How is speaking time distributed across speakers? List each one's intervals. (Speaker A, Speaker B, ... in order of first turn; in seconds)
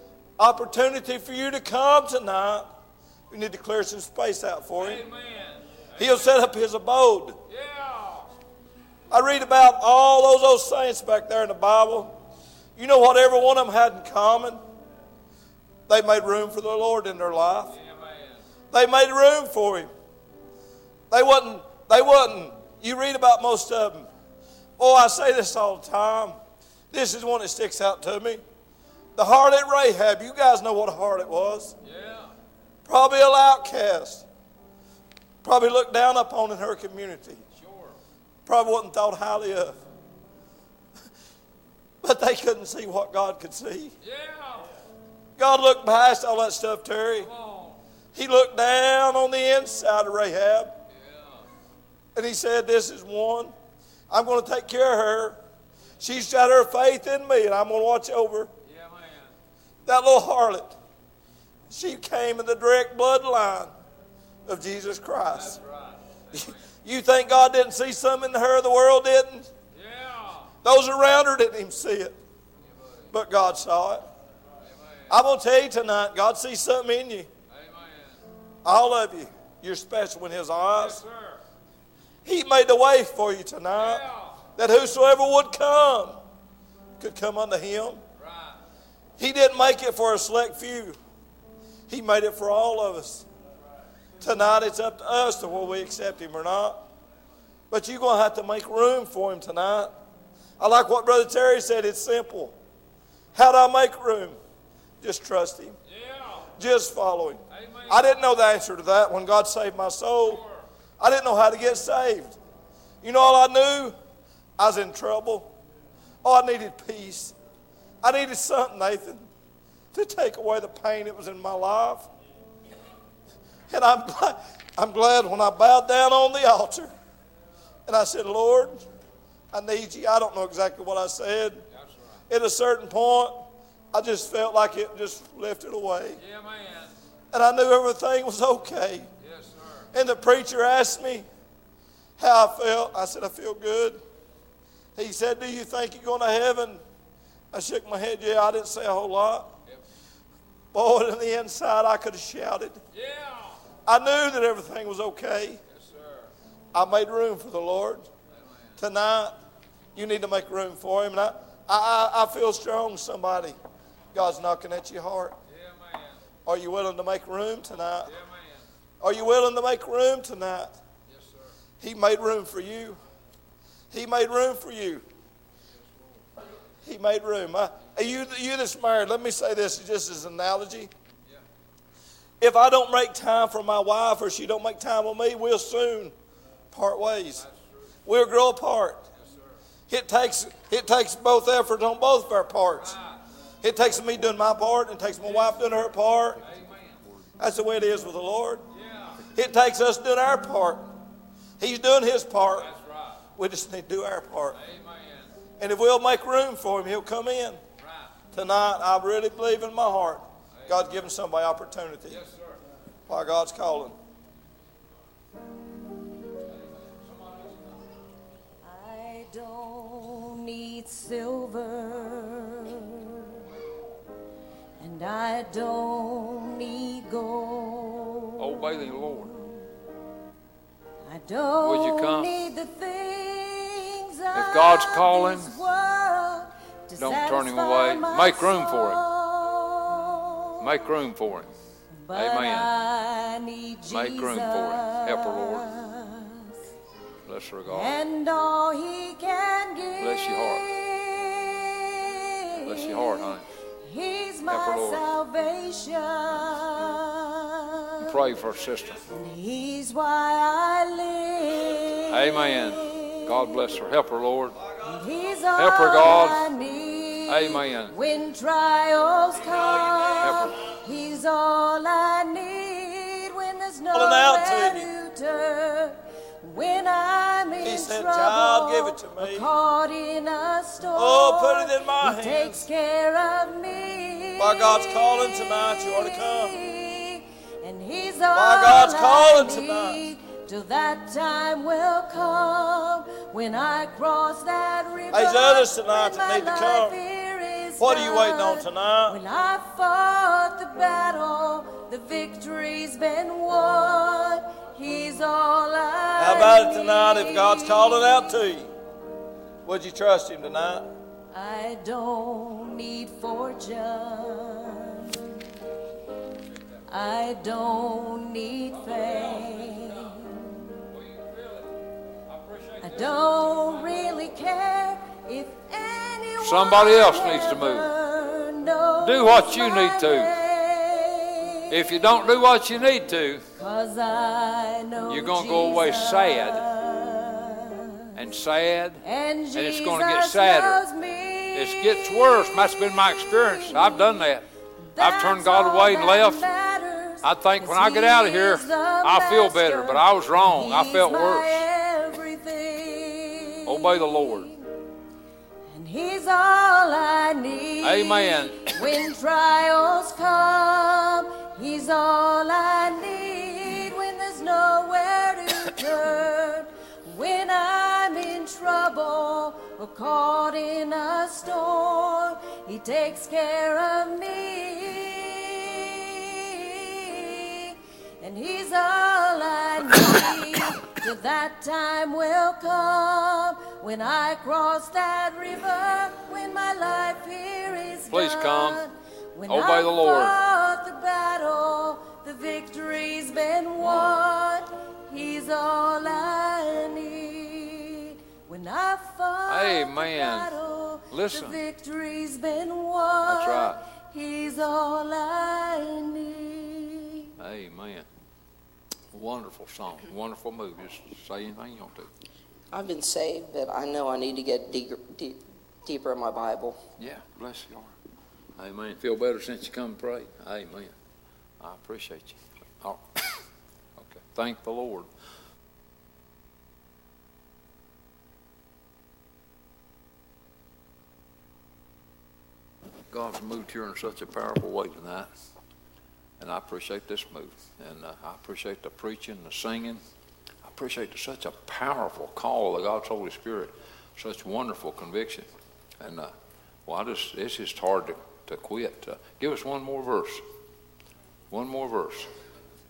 Speaker A: 0.4-2.8, 3.3-5.0, 6.0-7.4, 9.1-12.1, 12.8-14.6, 15.9-17.7, 18.7-19.9, 21.1-24.1, 24.8-26.4, 26.9-28.4, 29.1-31.7, 32.9-34.2, 35.4-37.4, 38.5-39.8, 42.0-43.9, 45.4-47.3, 48.1-50.7, 52.1-53.5, 54.1-55.4, 56.0-58.5, 59.9-60.7, 61.7-63.7, 64.5-65.6, 66.3-69.5, 70.6-72.2, 73.1-74.0, 75.1-77.3, 78.6-81.0, 82.2-84.0, 84.6-86.2, 87.0-88.0, 89.2-91.0, 91.9-93.3, 94.2-96.8, 97.7-99.9, 100.6-102.6, 103.3-104.4, 105.0-105.8, 106.6-110.4, 111.0-112.4, 113.0-114.0, 114.6-115.5, 116.2-117.3, 118.0-119.3, 119.9-122.1, 123.7-126.9, 127.9-128.8, 129.5-131.6, 132.3-133.4, 133.9-136.2, 137.3-139.1, 139.9-141.2, 142.2-144.0, 145.0-146.8, 147.5-149.5, 150.7-152.8, 153.9-155.6, 156.7-158.1, 158.8-159.4, 159.9-163.6, 164.1-165.4, 166.5-168.1, 169.0-170.7, 171.8-173.0, 173.9-175.0, 176.8-180.9, 182.4-186.1, 186.7-187.4, 188.1-189.1, 189.9-192.9, 193.6-196.4, 197.4-198.6, 199.3-200.9, 201.6-202.7, 203.4-204.6, 205.6-207.6, 208.3-212.2, 213.1-213.9, 273.9-274.9, 277.6-279.5, 280.9-282.6, 284.4-286.6, 288.3-290.0, 295.1-297.0, 297.8-299.2, 306.2-308.7, 309.7-310.9
Speaker B: 4.8-5.6, 7.5-8.3, 17.7-18.4, 31.8-32.3, 37.6-38.0, 44.0-44.6, 47.2-47.8, 50.9-51.5, 58.6-59.3, 65.3-66.6, 69.7-70.5, 72.8-73.1, 77.5-78.2, 80.8-81.4, 83.8-84.4, 88.2-88.6, 105.9-106.5, 107.5-108.2, 110.3-110.6, 136.2-137.0, 139.2-139.9, 152.9-153.6, 155.7-156.3, 165.5-166.2, 168.0-168.7, 171.1-171.5, 175.9-176.2, 187.4-187.8, 189.2-189.6, 192.8-193.2, 196.4-197.1, 198.7-199.2, 202.6-203.2, 204.5-205.3, 207.8-208.1, 210.6-210.9, 212.1-212.6, 216.7-217.8, 228.4-229.3, 231.6-232.5, 234.3-235.6, 237.0-239.1, 240.6-241.5, 242.1-242.7, 243.9-245.7, 247.3-248.0, 250.0-250.8, 252.6-253.5, 254.5-255.1, 258.0-259.0, 262.1-264.6, 265.6-266.5, 267.3-267.9, 270.2-270.6, 318.7-320.2, 320.9-321.7, 322.3-324.1, 326.4-327.9, 329.0-330.4, 331.7-333.4, 335.1-336.7, 338.1-340.8, 341.5-346.5, 347.2-351.7, 353.6-354.5, 357.8-358.8, 388.1-388.8, 389.5-390.4, 399.5-400.5, 401.1-401.6, 403.3-403.8, 407.4-408.1, 409.1-412.1, 417.0-417.9, 418.6-420.9, 421.6-423.4, 424.0-425.1, 433.1-435.3, 436.4-440.0, 440.6-445.5, 446.0-446.3, 446.9-450.4, 451.5-452.3
Speaker C: 218.6-223.3, 224.8-229.5, 231.0-240.7, 242.0-246.6, 247.7-258.1, 259.1-263.5, 264.9-308.3, 311.3-315.3, 316.9-320.7, 322.8-331.9, 333.6-338.2, 339.0-344.3, 344.8-354.7, 355.7-407.3
Speaker D: 412.7-416.8